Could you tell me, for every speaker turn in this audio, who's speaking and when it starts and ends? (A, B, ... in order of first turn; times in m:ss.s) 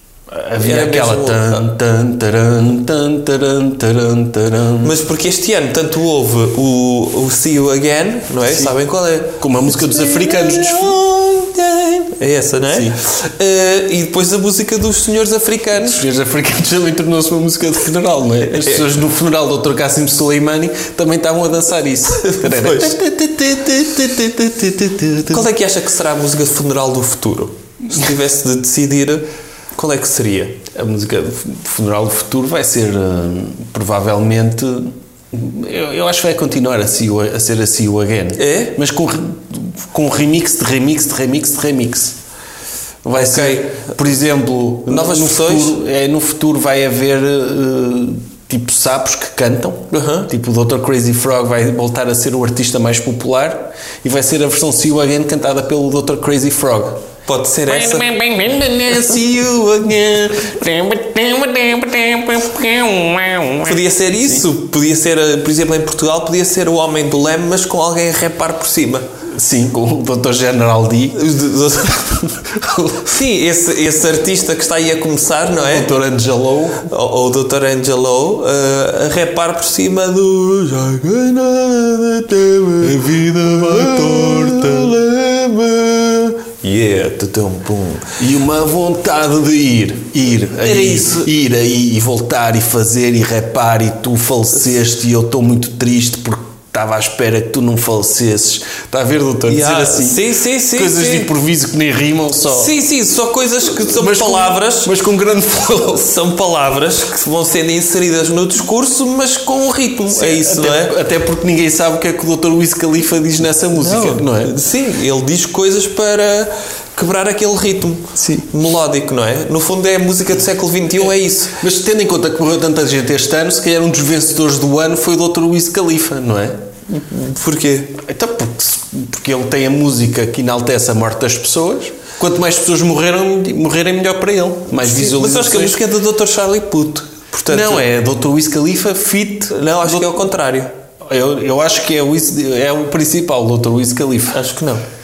0:00.3-0:04.9 A
0:00.6-0:01.7 B
0:04.8-0:16.0 B
0:08.4-0:08.7 A
0:09.4-0:11.0 A
0:12.7-0:13.0 A
0:15.8-0:25.4 A
0:18.5-0:18.8 B
0:22.1-0:22.9 B
0:25.3-0:30.6 B
0:30.7-0:42.2 A
0:38.4-0:38.8 B
0:43.0-0:57.0 A
0:43.1-0:44.0 B
0:44.9-0:45.8 B
0:49.9-0:50.3 B
0:57.3-0:58.1 B
0:57.7-1:04.4 A
1:03.6-1:09.1 B
1:09.3-1:13.1 A
1:11.1-1:12.2 B
1:13.0-1:15.9 B
1:15.6-1:16.8 A
1:16.8-1:28.1 B
1:22.8-1:25.0 A
1:28.2-1:42.7 A
1:30.6-1:31.3 B
1:39.5-1:41.3 B
1:42.5-1:44.9 B
1:43.8-1:46.1 A
1:45.8-1:50.9 B
1:50.1-1:54.5 A
1:53.8-2:01.6 B
1:58.2-1:58.4 A
2:01.6-2:06.6 A
2:06.9-2:08.0 B
2:08.0-2:15.8 A
2:14.8-2:17.9 B
2:17.5-2:20.2 A
2:19.5-2:20.7 B
2:21.0-2:24.4 A
2:24.3-2:24.8 B